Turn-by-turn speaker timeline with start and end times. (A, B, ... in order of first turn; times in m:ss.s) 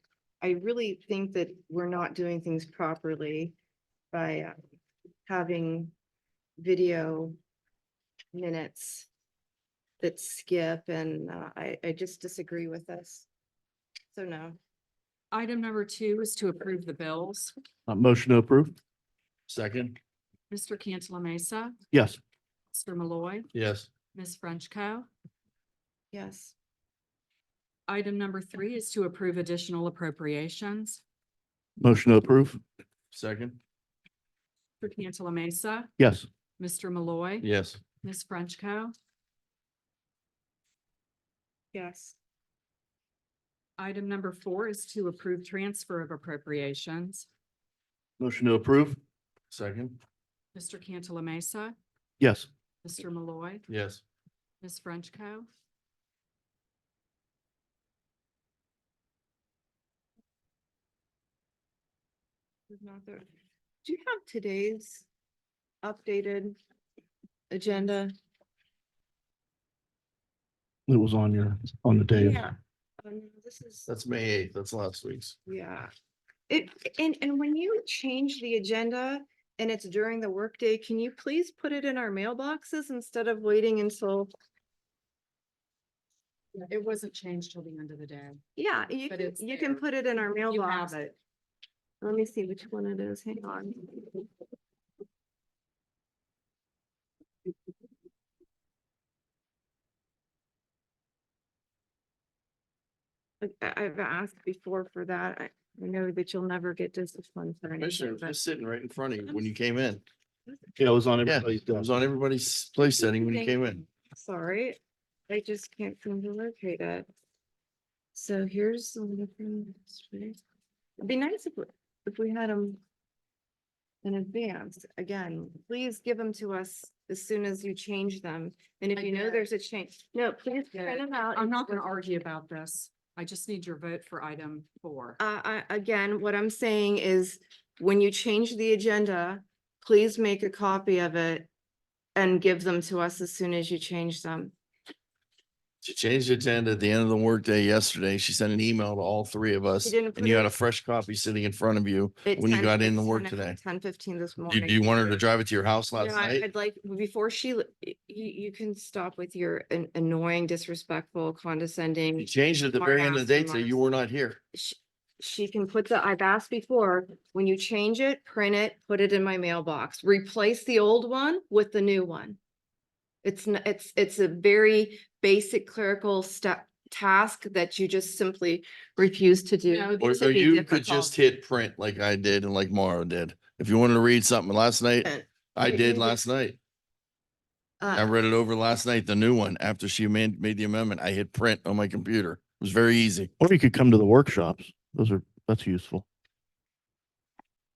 0:00.4-0:03.6 A
0:04.1-0:04.5 A
0:05.3-0:05.9 A
0:06.6-0:07.4 A
0:08.3-0:09.1 A
0:10.0-0:13.3 A
0:14.1-0:14.6 A
0:15.3-0:17.5 B
0:17.9-0:18.7 C
0:19.5-0:20.0 D
0:20.5-0:21.7 B
0:21.9-0:22.2 C
0:22.7-0:23.5 B
0:23.5-0:23.9 D
0:24.1-0:25.1 B
0:26.1-0:26.5 A
0:27.9-0:31.0 B
0:31.8-0:32.6 C
0:33.1-0:33.6 D
0:34.8-0:35.9 B
0:36.0-0:36.3 C
0:36.6-0:38.9 B
0:37.4-0:37.8 D
0:41.7-0:42.2 A
0:43.8-0:47.3 B
0:48.2-0:49.0 C
0:49.5-0:50.0 D
0:50.6-0:51.8 B
0:52.2-0:52.5 C
0:52.8-0:53.7 B
0:53.7-0:54.0 D
0:54.6-0:55.5 B
1:02.7-1:03.2 A
1:03.8-1:05.1 A
1:05.8-1:06.6 A
1:07.5-1:08.1 A
1:10.9-1:12.4 C
1:12.1-1:13.9 A
1:13.9-1:15.4 D
1:15.4-1:15.9 A
1:16.5-1:24.3 A
1:26.6-1:28.4 B
1:28.6-1:31.0 A
1:29.1-1:29.8 B
1:30.5-1:31.2 B
1:32.0-1:34.2 A
1:43.4-1:48.4 A
1:47.8-1:50.0 D
1:50.8-1:51.9 C
1:51.2-1:53.8 D
1:53.0-1:57.1 A
1:58.1-2:00.4 A
2:01.0-2:02.8 A
2:04.0-2:11.8 A
2:09.0-2:09.4 B
2:10.7-2:15.2 B
2:15.2-2:21.5 A
2:22.2-2:24.5 A
2:25.8-2:33.6 D
2:29.8-2:30.5 A
2:32.2-2:35.2 A
2:34.5-2:36.4 D
2:35.9-2:43.8 A
2:42.2-2:44.4 D
2:44.5-2:52.4 A
2:53.2-3:01.1 A
2:59.7-3:00.8 B
3:00.0-3:06.6 D
3:05.0-3:06.2 A
3:07.8-3:08.2 A
3:07.9-3:13.3 D
3:13.4-3:16.0 C